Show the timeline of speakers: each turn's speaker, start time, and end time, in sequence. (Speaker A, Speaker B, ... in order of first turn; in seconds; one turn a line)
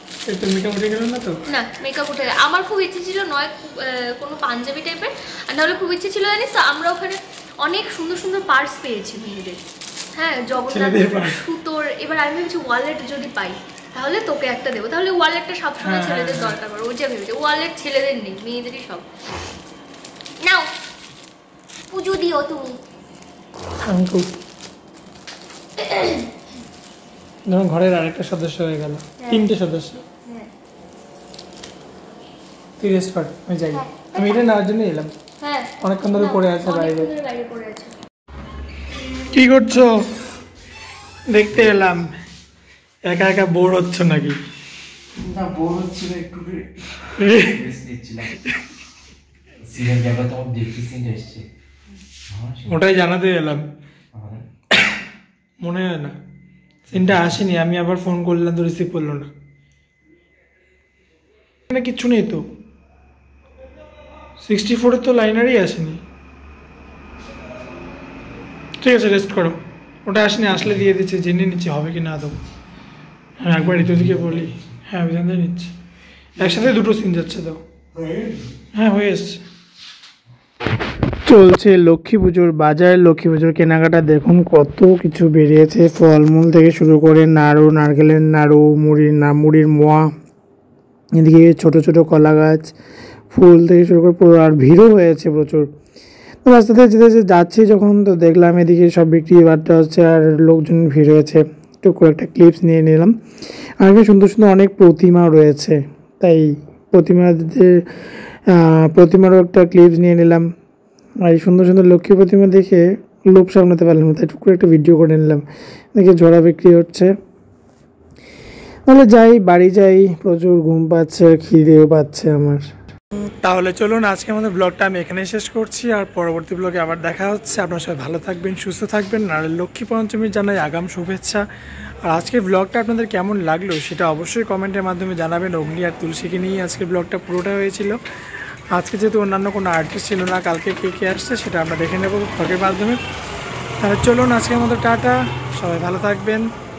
Speaker A: 0.3-1.3
Speaker B: 1.5-9.6
Speaker B: 10.1-19.0
Speaker A: 10.7-11.4
Speaker A: 15.8-16.6
Speaker B: 20.4-20.7
Speaker B: 21.9-22.8
Speaker A: 23.9-24.3
Speaker B: 25.8-26.2
Speaker A: 27.5-30.0
Speaker B: 29.2-29.5
Speaker B: 30.2-30.5
Speaker A: 32.8-35.1
Speaker B: 33.7-34.5
Speaker B: 35.4-37.9
Speaker A: 35.8-37.1
Speaker A: 39.3-39.9
Speaker A: 41.3-42.1
Speaker A: 43.0-44.4
Speaker C: 45.2-48.4
Speaker A: 47.2-47.5
Speaker C: 49.6-51.5
Speaker C: 52.3-52.8
Speaker A: 52.7-53.6
Speaker C: 54.1-54.4
Speaker A: 55.6-56.1
Speaker A: 56.9-59.3
Speaker C: 56.9-57.3
Speaker A: 61.7-62.4
Speaker A: 64.4-66.0
Speaker A: 68.8-72.3
Speaker A: 73.4-75.7
Speaker C: 73.8-74.3
Speaker A: 76.4-77.6
Speaker A: 78.7-79.4
Speaker A: 81.2-90.1
Speaker A: 91.2-92.7
Speaker A: 93.3-95.7
Speaker A: 96.4-103.1
Speaker A: 103.8-107.7
Speaker A: 108.5-110.5
Speaker A: 111.2-117.1
Speaker A: 118.9-131.4
Speaker A: 132.0-138.0
Speaker A: 138.7-143.0
Speaker A: 143.8-146.5